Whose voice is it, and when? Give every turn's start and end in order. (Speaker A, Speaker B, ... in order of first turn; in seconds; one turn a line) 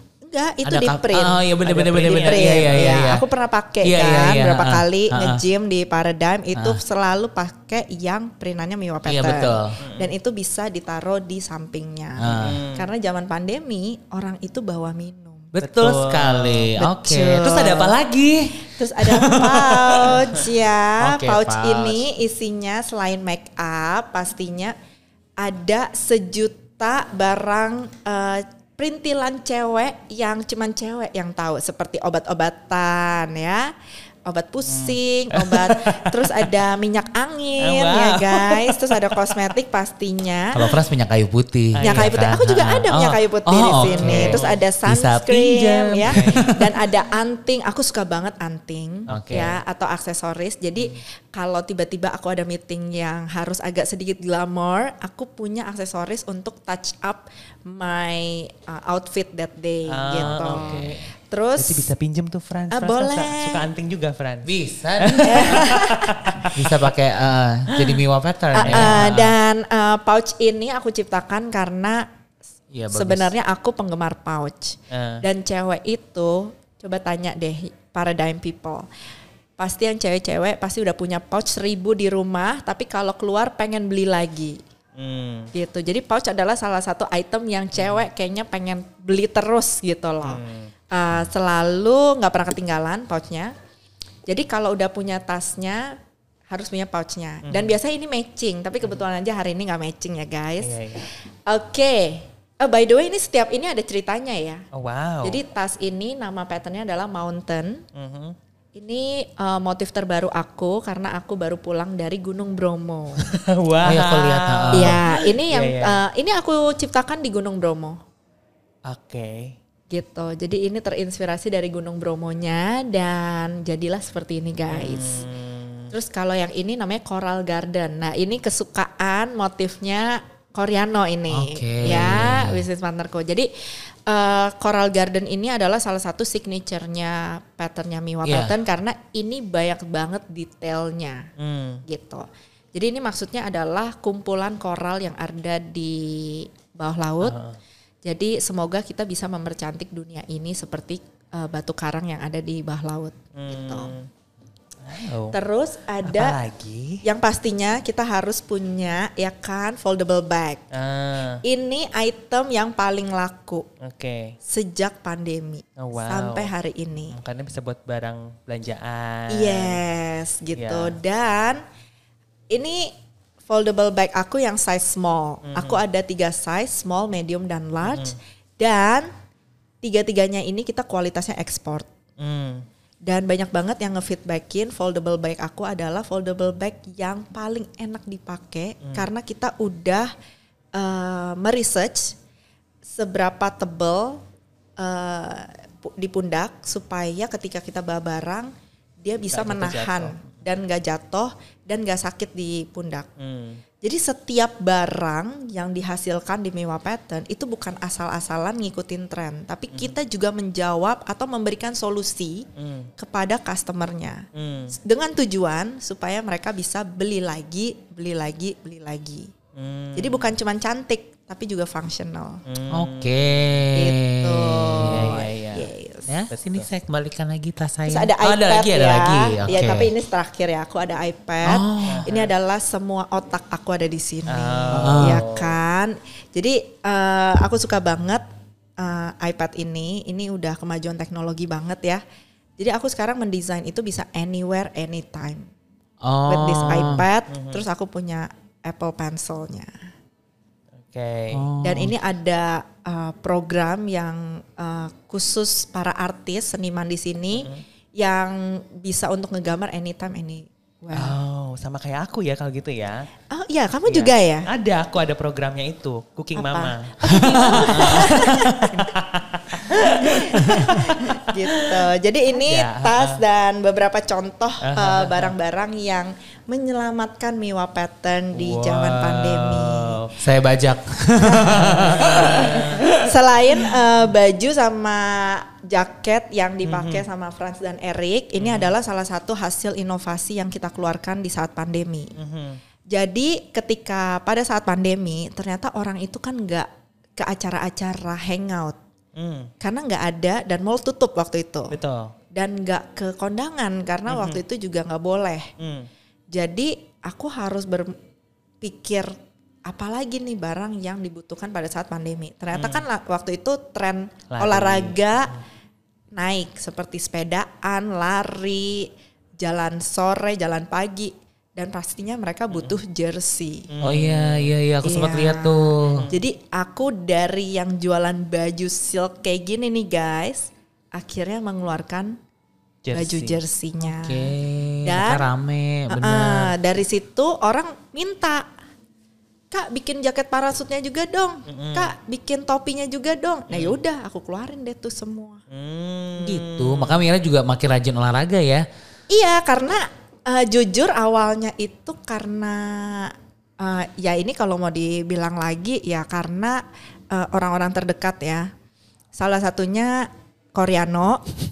Speaker A: 0.2-1.5
Speaker B: 0.6-3.2
Speaker C: 1.6-3.0
Speaker A: 2.0-15.5
Speaker B: 3.8-5.4
Speaker B: 6.5-6.8
Speaker B: 9.0-9.8
Speaker C: 9.8-10.1
Speaker B: 12.2-12.6
Speaker C: 12.4-12.9
Speaker B: 15.5-18.0
Speaker C: 15.6-18.5
Speaker A: 17.1-17.9
Speaker A: 18.6-24.8
Speaker B: 19.1-20.1
Speaker B: 21.0-22.1
Speaker A: 25.4-33.7
Speaker A: 34.2-40.6
Speaker C: 34.6-36.5
Speaker C: 37.6-39.5
Speaker B: 40.5-46.8
Speaker C: 41.8-42.7
Speaker A: 41.8-61.9
Speaker C: 43.7-44.6
Speaker C: 46.1-46.5
Speaker C: 49.1-49.6
Speaker B: 49.1-49.5
Speaker C: 59.9-61.0
Speaker B: 60.2-61.0
Speaker C: 61.6-66.8
Speaker A: 62.7-63.6
Speaker B: 64.5-65.8
Speaker A: 65.2-66.2
Speaker B: 66.5-69.3
Speaker A: 68.5-72.1
Speaker C: 68.6-69.2
Speaker B: 72.7-73.3
Speaker A: 72.9-78.9
Speaker C: 74.9-75.2
Speaker A: 79.6-84.6
Speaker C: 85.0-85.5
Speaker A: 85.5-93.5
Speaker C: 87.8-88.0
Speaker C: 90.2-90.7
Speaker A: 94.3-96.0
Speaker A: 96.5-104.6
Speaker C: 97.4-97.7
Speaker C: 100.6-101.1
Speaker C: 104.7-105.4
Speaker A: 105.2-107.8
Speaker C: 108.0-108.3
Speaker A: 108.8-113.2
Speaker C: 113.2-116.0
Speaker B: 113.8-115.0
Speaker A: 114.7-118.0
Speaker C: 118.9-119.5
Speaker A: 119.9-125.3
Speaker C: 124.7-125.9
Speaker A: 125.9-133.5
Speaker B: 131.3-132.6
Speaker A: 134.1-141.3
Speaker B: 138.2-138.5
Speaker C: 141.4-141.8
Speaker A: 141.9-147.3
Speaker C: 147.2-147.6
Speaker A: 148.0-153.9
Speaker C: 153.3-154.1
Speaker C: 154.8-155.4
Speaker A: 155.3-156.4
Speaker C: 156.0-157.0
Speaker A: 157.0-160.6
Speaker C: 160.7-161.4
Speaker A: 161.4-163.7
Speaker C: 163.8-164.3
Speaker A: 164.4-167.2
Speaker C: 165.8-166.5
Speaker C: 167.1-169.8
Speaker A: 169.3-171.6
Speaker C: 170.5-171.0
Speaker A: 172.5-172.9
Speaker A: 173.5-179.1
Speaker C: 175.5-175.8
Speaker C: 177.8-178.1
Speaker A: 179.8-181.9
Speaker C: 182.2-182.6
Speaker A: 183.1-190.1
Speaker A: 190.7-192.2
Speaker A: 192.8-194.2
Speaker A: 194.8-203.1
Speaker C: 199.3-200.2
Speaker C: 203.2-203.6
Speaker A: 203.8-212.5
Speaker C: 212.6-212.9
Speaker A: 213.0-214.2
Speaker C: 214.3-214.7
Speaker A: 214.8-219.3
Speaker C: 219.6-220.3
Speaker A: 219.9-222.4
Speaker C: 222.5-223.4
Speaker B: 222.7-225.1
Speaker A: 223.7-226.1
Speaker C: 224.8-225.7
Speaker B: 226.1-229.9
Speaker C: 226.3-226.7
Speaker A: 227.9-238.2
Speaker B: 231.4-232.1
Speaker C: 231.9-232.3
Speaker C: 234.3-235.5
Speaker B: 234.8-235.2
Speaker A: 238.8-242.0
Speaker A: 242.6-245.5
Speaker B: 246.0-247.0
Speaker A: 246.2-249.7
Speaker C: 247.3-247.6
Speaker C: 250.8-251.4
Speaker B: 251.3-251.9
Speaker A: 251.6-261.2
Speaker C: 257.4-257.6
Speaker C: 260.9-263.1
Speaker A: 263.3-264.5
Speaker C: 263.8-271.8
Speaker A: 266.4-269.0
Speaker B: 267.1-268.1
Speaker A: 269.6-280.0
Speaker C: 272.3-273.2
Speaker C: 274.6-275.3
Speaker C: 278.3-280.1
Speaker B: 280.2-282.9
Speaker A: 281.2-292.1
Speaker C: 281.5-282.9
Speaker C: 286.6-287.0
Speaker C: 288.4-288.7
Speaker C: 292.2-292.6
Speaker A: 292.9-296.7
Speaker A: 297.2-298.8
Speaker C: 299.2-299.5
Speaker A: 299.6-301.8
Speaker C: 301.7-302.1
Speaker A: 302.3-305.5
Speaker C: 304.1-304.4
Speaker C: 305.6-305.9
Speaker A: 306.3-308.0
Speaker A: 308.6-309.1
Speaker A: 309.7-315.3
Speaker C: 312.5-312.8
Speaker C: 314.3-314.9
Speaker A: 316.1-323.7
Speaker C: 323.7-324.5
Speaker B: 323.8-326.1
Speaker A: 324.8-332.2
Speaker C: 325.9-326.2
Speaker C: 332.8-333.4
Speaker A: 332.9-334.3
Speaker B: 333.9-336.5
Speaker A: 334.8-335.3
Speaker A: 335.9-338.5
Speaker A: 339.5-345.4
Speaker C: 341.5-341.9
Speaker C: 343.5-343.8
Speaker C: 345.5-347.0
Speaker B: 346.2-348.6
Speaker A: 349.1-358.5
Speaker A: 359.1-361.2